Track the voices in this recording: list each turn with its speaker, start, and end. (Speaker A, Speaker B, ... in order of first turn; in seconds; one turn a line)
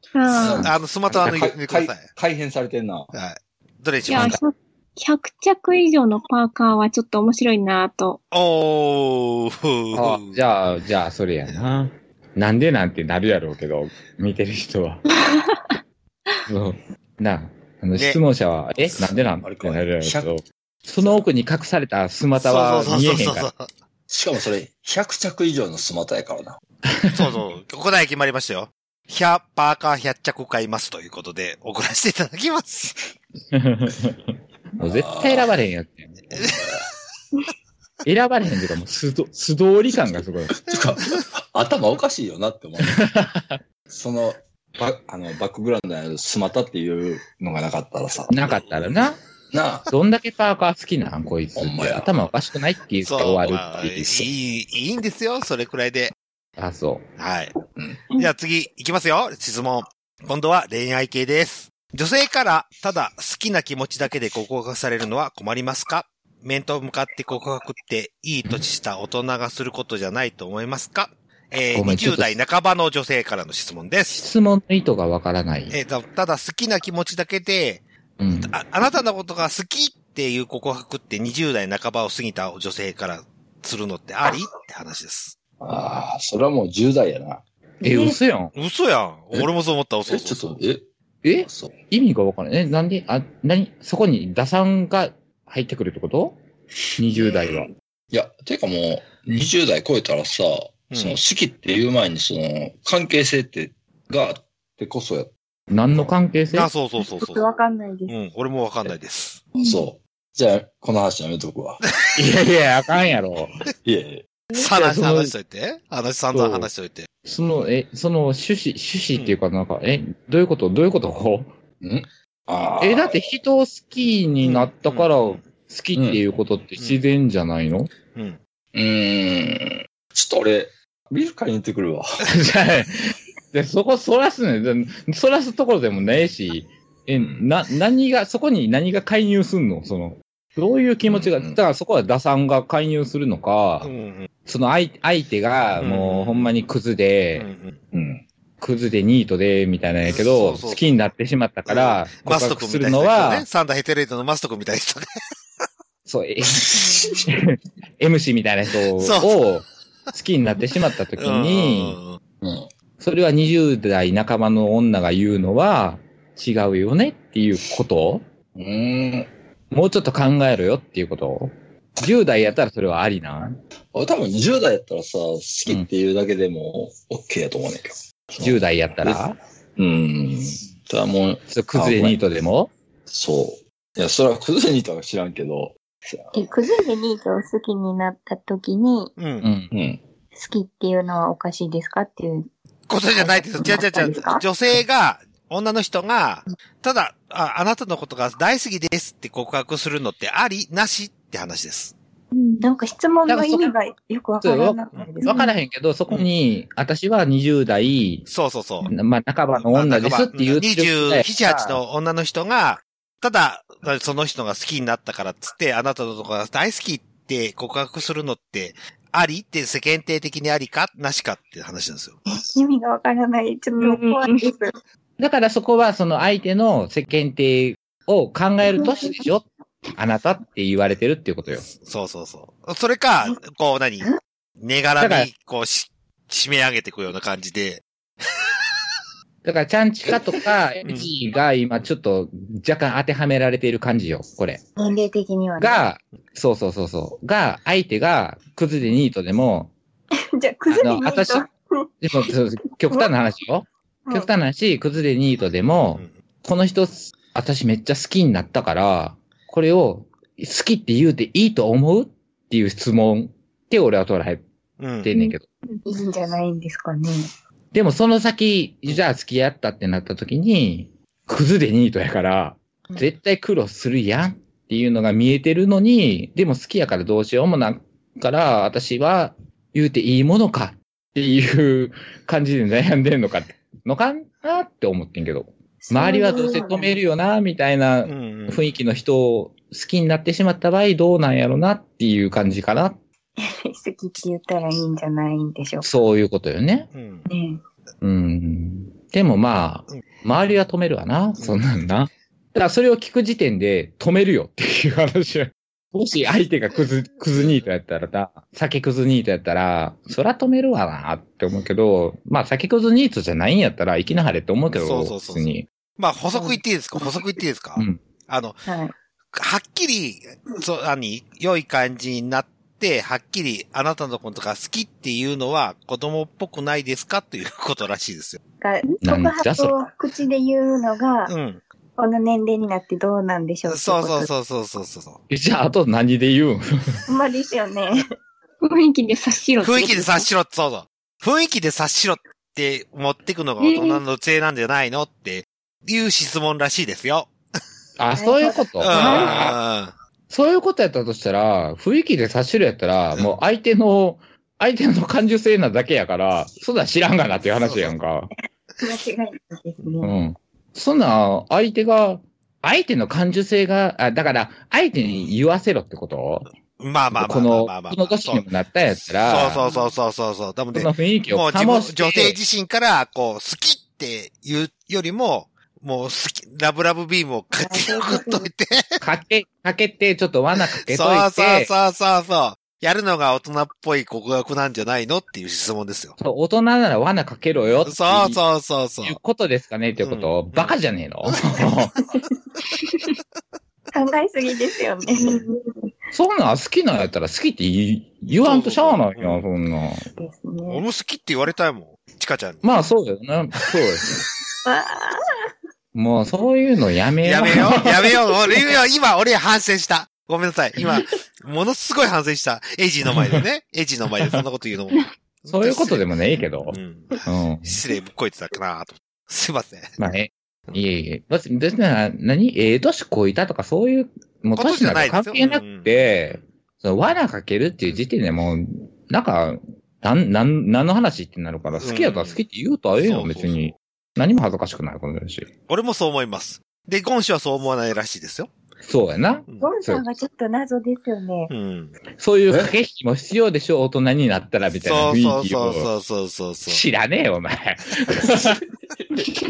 Speaker A: 0.1-0.7
Speaker B: 0.3-3.1
Speaker C: 0.4-2.0
Speaker C: 3.1-4.4
Speaker A: 4.1-8.2
Speaker C: 8.3-10.4
Speaker D: 9.9-15.0
Speaker A: 15.3-15.7
Speaker D: 16.5-23.5
Speaker B: 18.9-20.3
Speaker B: 20.9-21.3
Speaker C: 22.4-23.7
Speaker B: 24.1-26.6
Speaker D: 26.9-27.4
Speaker C: 27.1-33.0
Speaker D: 33.5-34.2
Speaker B: 34.8-35.5
Speaker D: 34.8-36.2
Speaker B: 36.3-36.9
Speaker D: 38.0-40.6
Speaker B: 39.9-43.0
Speaker D: 42.8-43.6
Speaker B: 43.9-48.5
Speaker D: 48.3-49.2
Speaker C: 48.5-49.0
Speaker B: 49.5-49.9
Speaker D: 49.9-54.3
Speaker B: 51.5-52.1
Speaker C: 53.0-56.1
Speaker D: 56.6-57.1
Speaker C: 57.2-57.5
Speaker B: 57.8-58.0
Speaker C: 58.2-74.3
Speaker D: 71.7-72.4
Speaker D: 74.1-75.8
Speaker C: 75.7-77.8
Speaker D: 78.2-78.5
Speaker C: 78.5-85.4
Speaker B: 85.6-87.4
Speaker E: 87.8-88.1
Speaker D: 87.8-88.5
Speaker C: 88.5-90.6
Speaker B: 90.1-90.9
Speaker D: 91.2-96.4
Speaker B: 91.4-91.8
Speaker D: 97.0-97.7
Speaker B: 98.1-105.3
Speaker C: 100.9-101.2
Speaker D: 105.7-106.7
Speaker C: 106.5-107.4
Speaker E: 107.2-108.1
Speaker C: 108.1-109.4
Speaker B: 109.6-111.8
Speaker D: 112.2-113.5
Speaker B: 113.8-114.2
Speaker C: 114.5-117.1
Speaker D: 114.7-115.3
Speaker D: 116.3-116.7
Speaker D: 117.2-121.5
Speaker B: 121.8-123.3
Speaker D: 122.8-127.9
Speaker C: 124.4-125.5
Speaker B: 126.0-126.2
Speaker B: 128.7-132.1
Speaker D: 132.3-143.9
Speaker B: 137.1-137.5
Speaker B: 141.1-141.6
Speaker C: 143.8-144.3
Speaker D: 144.4-147.5
Speaker C: 145.8-146.6
Speaker C: 147.4-147.8
Speaker B: 147.9-148.2
Speaker D: 148.6-153.5
Speaker C: 150.0-151.0
Speaker C: 151.7-155.1
Speaker D: 156.1-162.0
Speaker B: 156.7-157.1
Speaker C: 159.0-159.4
Speaker C: 161.2-162.2
Speaker B: 162.4-162.7
Speaker D: 163.0-168.2
Speaker B: 168.6-169.3
Speaker D: 169.7-173.6
Speaker B: 173.9-182.2
Speaker D: 178.4-179.4
Speaker D: 181.5-182.7
Speaker B: 183.1-186.5
Speaker E: 186.3-189.1
Speaker C: 189.2-189.5
Speaker D: 189.4-189.7
Speaker B: 189.7-190.0
Speaker E: 190.3-192.5
Speaker C: 192.9-201.9
Speaker E: 193.1-194.4
Speaker A: 202.3-202.6
Speaker E: 202.6-205.4
Speaker D: 203.3-203.7
Speaker D: 204.4-208.3
Speaker A: 205.2-205.5
Speaker C: 208.3-208.9
Speaker D: 208.8-211.8
Speaker C: 209.6-222.2
Speaker E: 222.5-224.7
Speaker A: 223.8-224.4
Speaker D: 225.2-231.7
Speaker E: 228.8-229.2
Speaker C: 231.7-237.8
Speaker D: 235.0-235.3
Speaker D: 239.4-244.6
Speaker E: 244.8-245.8
Speaker D: 245.6-249.7
Speaker E: 250.3-251.9
Speaker D: 250.7-251.5
Speaker D: 252.0-264.4
Speaker C: 264.8-265.1
Speaker D: 265.0-265.5
Speaker A: 265.1-265.8
Speaker E: 265.9-267.3
Speaker D: 267.7-293.0
Speaker E: 285.8-286.9
Speaker C: 288.1-288.7
Speaker E: 293.4-295.9
Speaker D: 295.8-296.9
Speaker C: 296.9-297.3
Speaker E: 297.3-297.6
Speaker D: 298.0-315.7
Speaker C: 307.4-307.6
Speaker C: 314.7-318.6
Speaker E: 316.3-316.6
Speaker D: 317.8-318.0
Speaker E: 318.7-318.9
Speaker C: 319.3-328.4
Speaker E: 328.6-331.3
Speaker D: 329.0-329.7
Speaker C: 331.3-331.6
Speaker E: 332.0-334.3
Speaker C: 333.7-335.2
Speaker D: 335.3-336.6
Speaker E: 337.1-338.1
Speaker A: 338.6-340.3
Speaker C: 339.6-347.3
Speaker A: 343.6-344.0
Speaker D: 348.0-349.6
Speaker E: 348.2-349.4
Speaker C: 348.8-349.9
Speaker D: 350.3-358.3
Speaker C: 357.6-357.9
Speaker E: 358.8-360.1
Speaker D: 360.0-366.5
Speaker C: 366.8-368.4
Speaker D: 367.1-369.7
Speaker C: 369.2-378.9
Speaker E: 369.6-369.9
Speaker D: 370.7-372.4
Speaker E: 377.6-378.5
Speaker D: 379.0-381.7
Speaker C: 380.6-386.2
Speaker D: 386.2-388.4
Speaker C: 387.9-389.2
Speaker D: 389.0-391.9
Speaker C: 390.0-391.4
Speaker E: 392.4-392.7
Speaker E: 393.9-395.5
Speaker D: 396.1-400.1
Speaker C: 398.4-399.4
Speaker E: 400.2-400.8
Speaker C: 400.7-402.7
Speaker D: 402.6-404.1
Speaker E: 404.6-405.2
Speaker D: 405.9-408.1
Speaker C: 407.2-416.1
Speaker D: 413.1-413.4
Speaker D: 414.1-414.4
Speaker D: 415.5-417.8
Speaker C: 416.7-419.9
Speaker D: 420.0-435.5
Speaker C: 424.6-426.4
Speaker C: 431.8-432.4
Speaker C: 433.0-433.7
Speaker C: 435.7-438.5
Speaker D: 438.8-440.1
Speaker E: 439.6-441.5
Speaker C: 441.5-441.9
Speaker D: 442.2-445.9
Speaker C: 444.8-446.8
Speaker D: 446.7-448.6